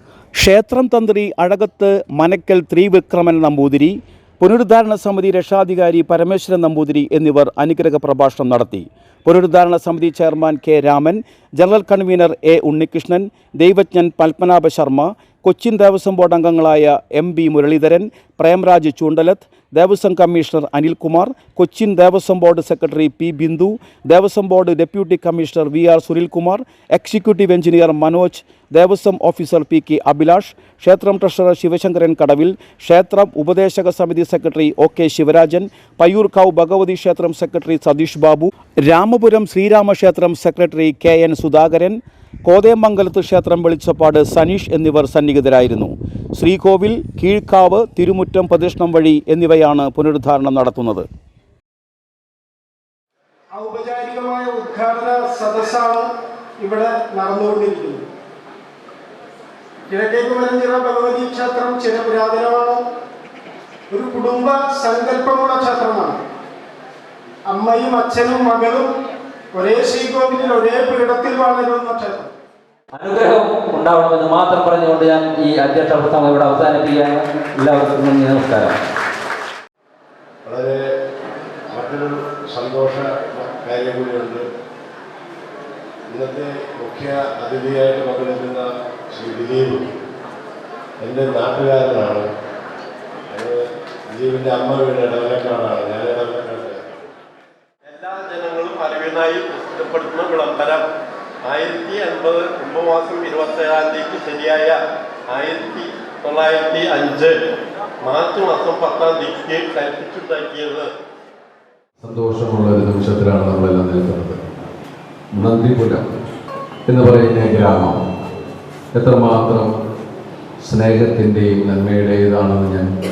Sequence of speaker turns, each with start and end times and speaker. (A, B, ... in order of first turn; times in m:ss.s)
0:00.3-0:51.1 A
0:53.5-0:58.0 B
0:59.9-1:02.8 B
1:03.9-1:06.2 B
1:07.5-1:08.9 B
1:09.5-1:12.3 B
1:12.9-1:18.8 C
1:20.4-1:20.8 D
1:21.7-1:24.4 D
1:26.1-1:29.9 D
1:31.0-1:32.2 D
1:33.3-1:36.8 D
1:37.9-1:40.8 E
1:41.4-1:44.8 E
1:45.3-1:47.4 E
1:48.0-1:50.9 E
1:52.0-1:54.4 F
1:55.4-1:56.1 F
1:56.9-1:58.0 F
1:58.9-1:59.7 F
2:00.6-2:02.9 F